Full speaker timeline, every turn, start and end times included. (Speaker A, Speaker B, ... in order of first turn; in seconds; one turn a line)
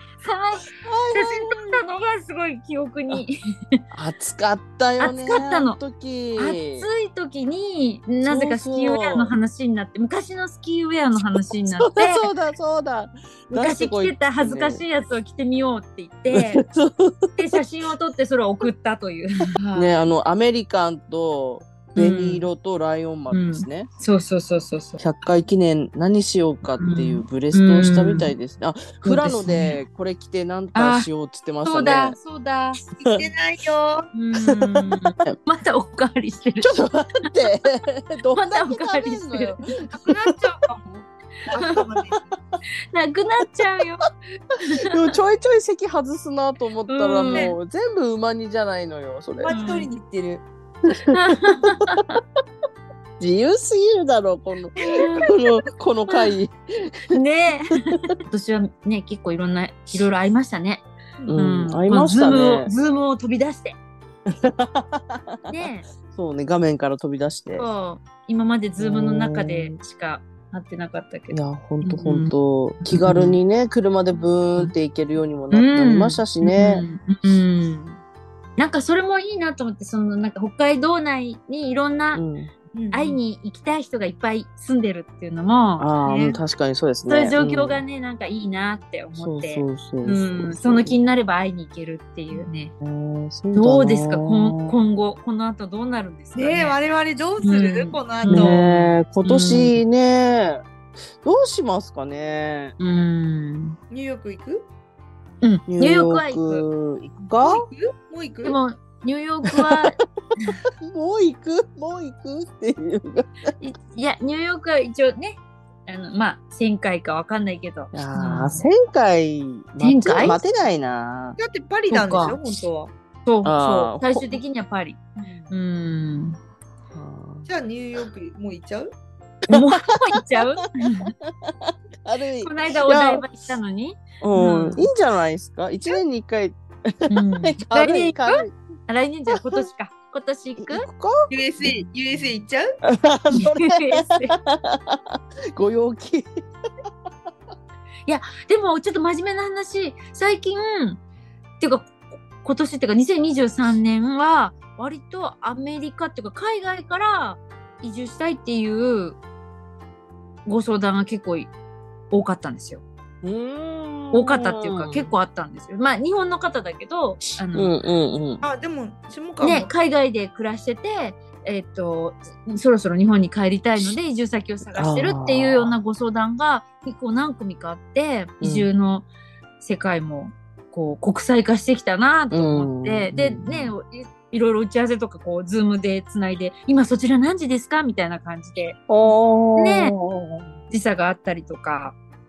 Speaker A: 0.2-3.8
Speaker B: 0.8-1.8
Speaker B: 3.9-6.9
Speaker A: 5.0-5.8
Speaker A: 6.4-12.3
Speaker B: 8.2-9.3
Speaker B: 11.8-14.8
Speaker A: 13.5-16.6
Speaker B: 16.3-17.4
Speaker A: 17.3-20.0
Speaker B: 19.7-23.9
Speaker A: 21.9-22.5
Speaker A: 23.3-25.1
Speaker B: 25.0-32.2
Speaker A: 26.8-28.3
Speaker A: 29.1-29.8
Speaker A: 30.7-31.1
Speaker A: 31.6-32.8
Speaker C: 33.0-34.1
Speaker A: 34.1-36.7
Speaker B: 34.5-35.3
Speaker B: 36.6-40.3
Speaker A: 38.3-39.6
Speaker C: 40.0-42.2
Speaker A: 42.9-45.0
Speaker B: 44.9-49.5
Speaker A: 46.9-47.5
Speaker C: 47.2-47.5
Speaker C: 49.4-50.4
Speaker A: 49.5-49.9
Speaker B: 51.0-51.7
Speaker A: 51.1-52.2
Speaker B: 53.2-57.1
Speaker A: 54.9-55.3
Speaker A: 56.1-56.4
Speaker A: 57.1-63.8
Speaker B: 61.3-62.7
Speaker B: 64.3-67.7
Speaker A: 65.5-65.9
Speaker A: 67.5-72.3
Speaker B: 68.8-69.7
Speaker B: 71.3-76.8
Speaker A: 72.8-73.4
Speaker A: 75.5-78.0
Speaker A: 78.6-82.2
Speaker B: 82.1-82.5
Speaker C: 82.7-83.2
Speaker A: 82.9-86.3
Speaker B: 85.8-87.8
Speaker A: 87.0-92.7
Speaker B: 89.2-91.0
Speaker B: 92.8-94.7
Speaker A: 93.5-96.8
Speaker C: 96.3-98.6
Speaker A: 97.4-99.8
Speaker B: 98.3-100.6
Speaker B: 101.2-102.7
Speaker A: 102.8-103.8
Speaker C: 103.9-104.7
Speaker A: 105.4-106.7
Speaker B: 105.7-107.6
Speaker C: 107.3-108.6
Speaker A: 108.4-110.5
Speaker B: 110.5-113.5
Speaker A: 113.6-118.6
Speaker B: 117.9-121.4
Speaker A: 119.8-120.4
Speaker C: 121.4-122.9
Speaker A: 121.9-122.4
Speaker A: 123.2-125.0
Speaker B: 123.4-124.4
Speaker C: 125.2-125.5
Speaker A: 125.5-126.4
Speaker B: 126.9-127.5
Speaker C: 127.5-128.9
Speaker A: 129.5-131.1
Speaker B: 129.5-130.4
Speaker B: 131.5-133.5
Speaker A: 132.4-134.9
Speaker B: 134.2-138.5
Speaker A: 137.1-140.8
Speaker B: 139.3-139.7
Speaker B: 140.6-141.3
Speaker C: 141.3-142.8
Speaker B: 142.9-146.3
Speaker A: 143.3-144.4
Speaker A: 148.1-151.0
Speaker A: 151.6-159.2
Speaker A: 160.4-161.5
Speaker A: 162.1-162.8
Speaker B: 163.2-165.1
Speaker A: 164.1-167.7
Speaker B: 167.5-168.4
Speaker C: 168.4-169.7
Speaker A: 169.4-179.1
Speaker B: 174.7-175.8
Speaker B: 178.4-178.7
Speaker A: 179.6-189.9
Speaker B: 182.3-183.7
Speaker B: 188.9-190.5
Speaker A: 190.7-191.9